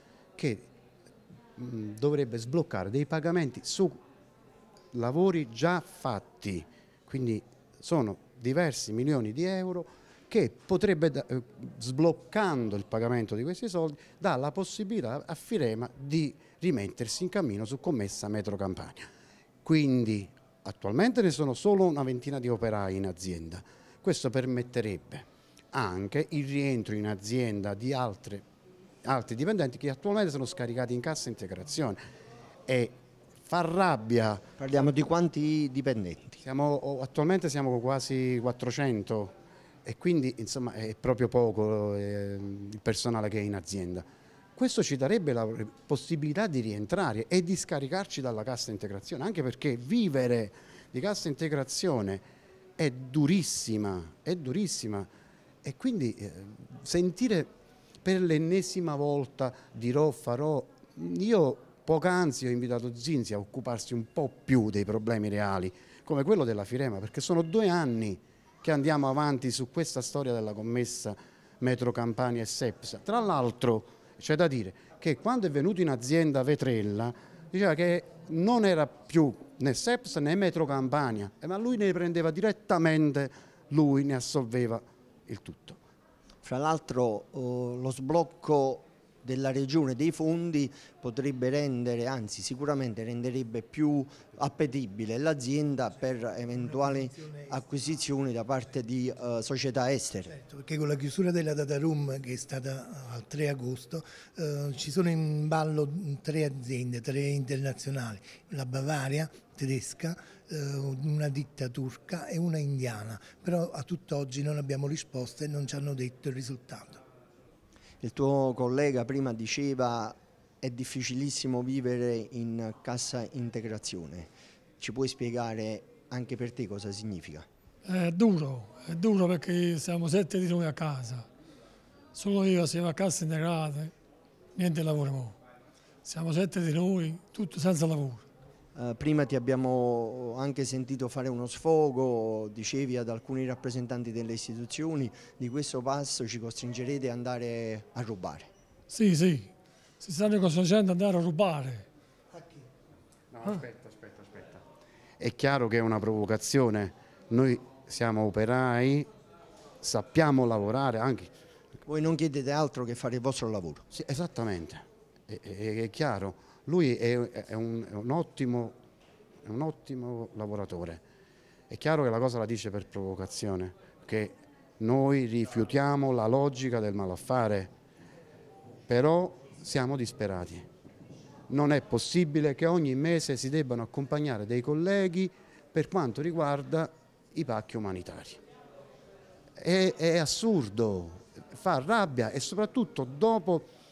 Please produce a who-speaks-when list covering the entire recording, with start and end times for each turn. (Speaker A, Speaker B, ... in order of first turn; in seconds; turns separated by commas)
Speaker A: 0.4-0.7, Speaker A: 1.6-4.0, Speaker A: 4.9-19.0, Speaker A: 19.6-28.4, Speaker A: 29.0-32.0, Speaker A: 32.7-32.9, Speaker A: 33.4-34.4, Speaker B: 34.6-36.4, Speaker A: 36.4-39.3, Speaker A: 39.8-52.2, Speaker A: 52.8-55.1, Speaker A: 55.6-57.5, Speaker A: 58.0-85.8, Speaker B: 86.4-100.4, Speaker C: 96.7-97.5, Speaker C: 100.4-117.0, Speaker B: 118.0-127.5, Speaker D: 127.8-131.3, Speaker D: 132.1-133.9, Speaker D: 134.6-135.3, Speaker D: 136.0-138.2, Speaker B: 138.7-148.5, Speaker D: 148.9-151.8, Speaker A: 153.3-154.6, Speaker A: 155.2-159.1, Speaker A: 159.8-161.3, Speaker B: 161.9-163.8, Speaker A: 163.9-168.7, Speaker A: 169.4-171.0, Speaker A: 171.7-177.7, Speaker A: 178.9-180.7, Speaker A: 181.5-188.4, Speaker A: 189.6-193.7